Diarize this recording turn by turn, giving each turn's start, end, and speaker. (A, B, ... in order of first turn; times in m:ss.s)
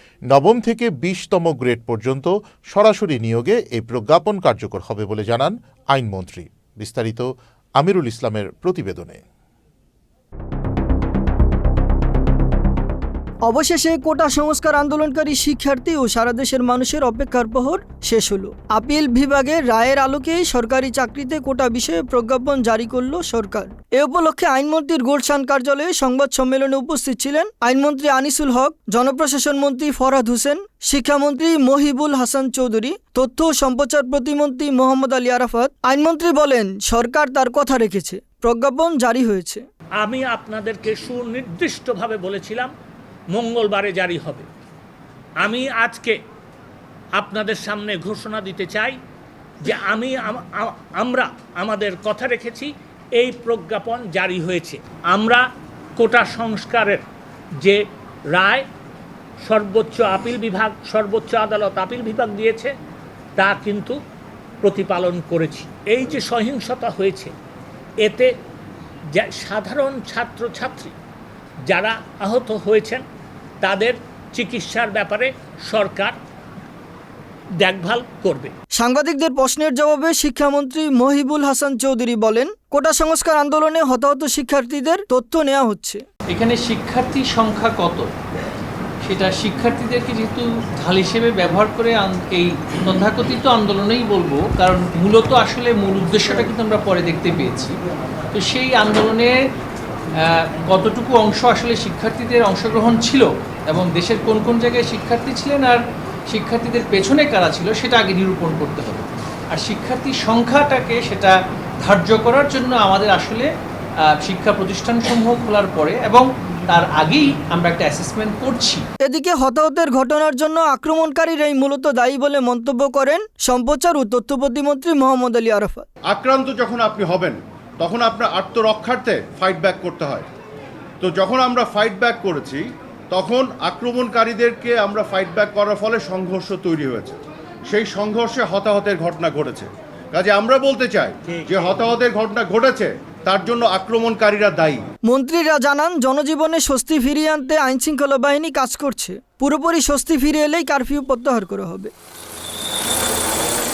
0:00.3-0:07.3 A
0:07.8-0:09.2 A
0:13.5-0:39.6 B
0:40.0-0:42.7 C
0:43.3-0:44.5 C
0:45.4-0:46.2 C
0:47.2-0:49.0 C
0:49.6-0:55.4 C
0:56.0-0:57.1 C
0:58.3-0:58.7 C
0:59.4-1:02.7 C
1:03.4-1:04.0 C
1:04.6-1:07.3 C
1:08.0-1:08.3 C
1:09.1-1:11.0 C
1:11.7-1:13.0 C
1:13.6-1:16.2 C
1:17.6-1:18.5 C
1:18.8-1:26.0 B
1:26.3-1:28.1 D
1:29.0-1:37.8 D
1:38.3-1:39.4 D
1:40.2-1:53.5 D
1:54.1-1:58.8 D
1:59.0-2:05.9 B
2:06.1-2:10.3 E
2:11.0-2:24.9 E
2:25.1-2:31.9 B